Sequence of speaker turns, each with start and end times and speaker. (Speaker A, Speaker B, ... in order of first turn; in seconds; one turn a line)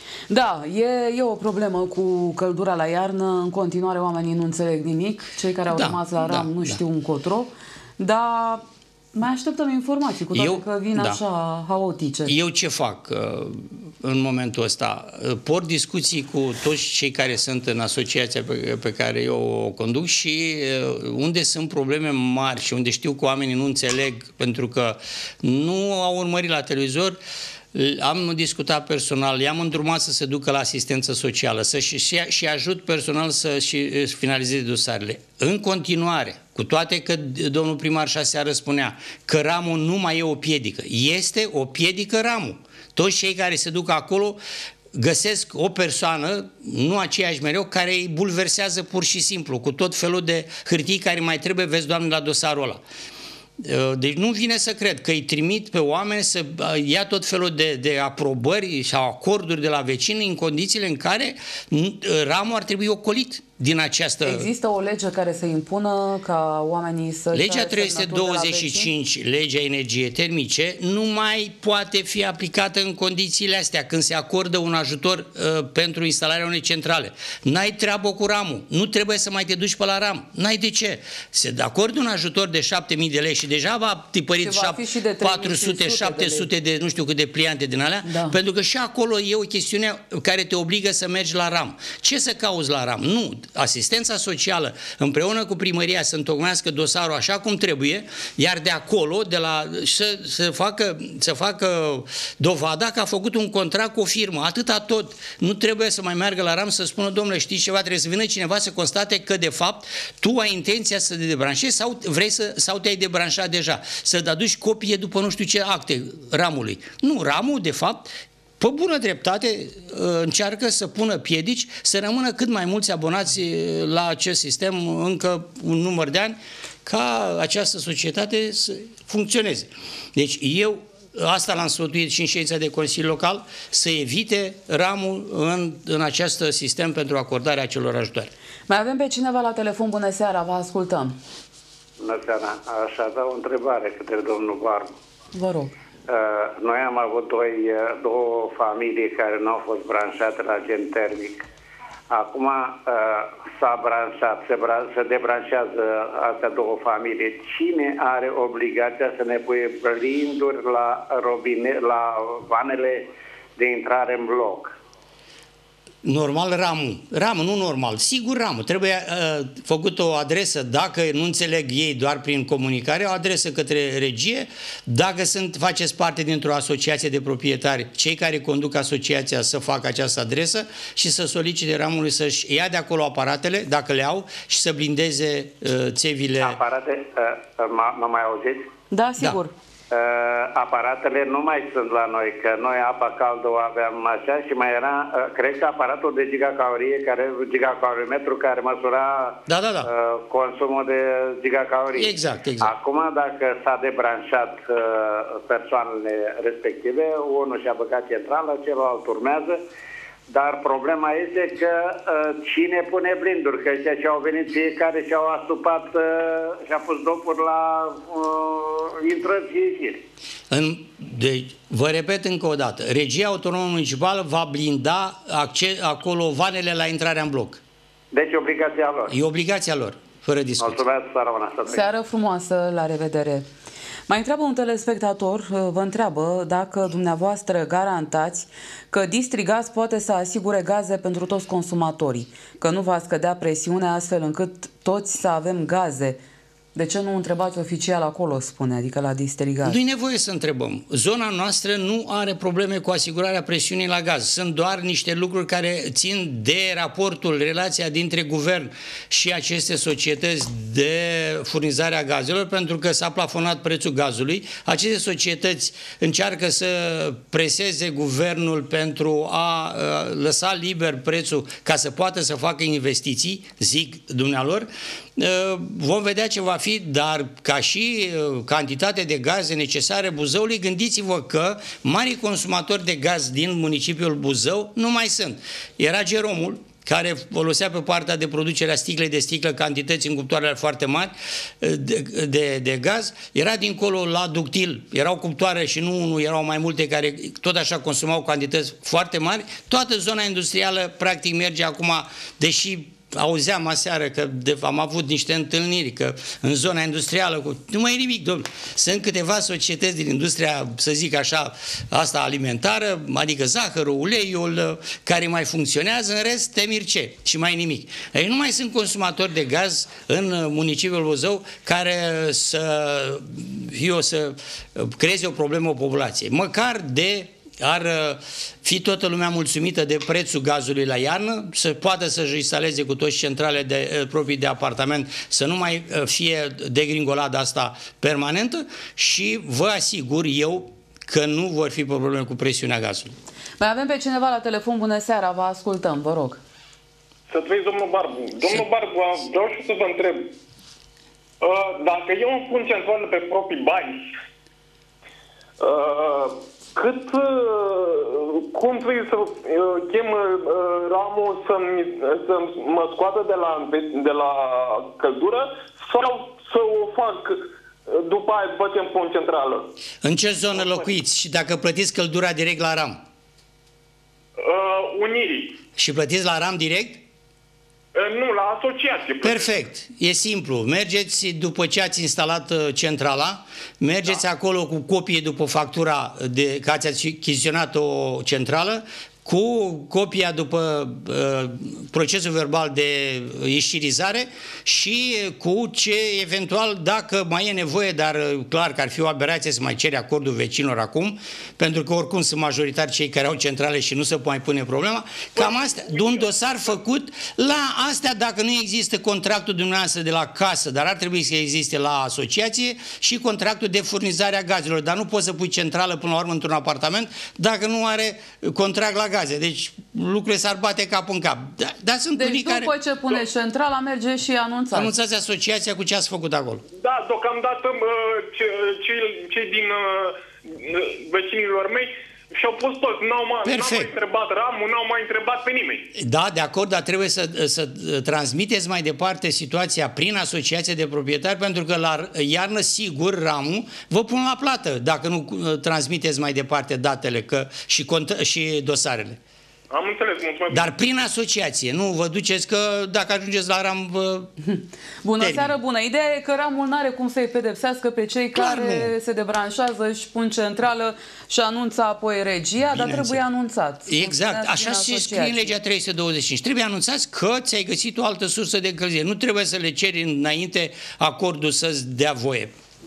Speaker A: 0.3-12.3
Speaker B: 5.7-6.8
Speaker B: 10.3-11.2
Speaker B: 12.2-27.2
Speaker B: 27.7-44.4
Speaker B: 44.9-52.8
Speaker B: 53.6-64.5
Speaker A: 64.2-68.9
Speaker B: 67.3-118.1
Speaker A: 84.4-86.5
Speaker A: 88.0-88.4
Speaker B: 118.6-138.3
Speaker A: 138.7-141.2
Speaker C: 142.0-144.9
Speaker A: 145.3-145.7
Speaker C: 146.1-151.4
Speaker C: 152.1-164.7
Speaker B: 166.0-186.6
Speaker C: 186.4-188.7
Speaker A: 188.9-189.5
Speaker C: 189.9-209.6
Speaker B: 199.5-199.9
Speaker B: 201.9-202.7
Speaker C: 210.3-220.0
Speaker B: 220.5-227.6
Speaker C: 228.1-229.1
Speaker B: 229.1-230.8
Speaker C: 230.6-231.8
Speaker A: 231.7-233.5
Speaker A: 234.1-246.2
Speaker A: 246.7-249.8
Speaker B: 249.6-343.1
Speaker A: 343.6-346.4
Speaker D: 347.3-350.3
Speaker D: 351.4-354.1
Speaker D: 355.6-369.7
Speaker B: 370.0-373.0
Speaker D: 374.4-375.6
Speaker B: 375.8-377.0
Speaker D: 377.9-379.5
Speaker B: 379.2-422.7
Speaker A: 422.1-424.9
Speaker B: 424.7-426.6
Speaker D: 426.8-435.9
Speaker B: 433.4-433.9
Speaker B: 435.9-449.2
Speaker D: 449.7-450.7
Speaker B: 450.5-454.3
Speaker A: 454.4-465.5
Speaker B: 455.2-455.5
Speaker B: 458.3-458.9
Speaker B: 462.7-463.2
Speaker B: 463.9-472.5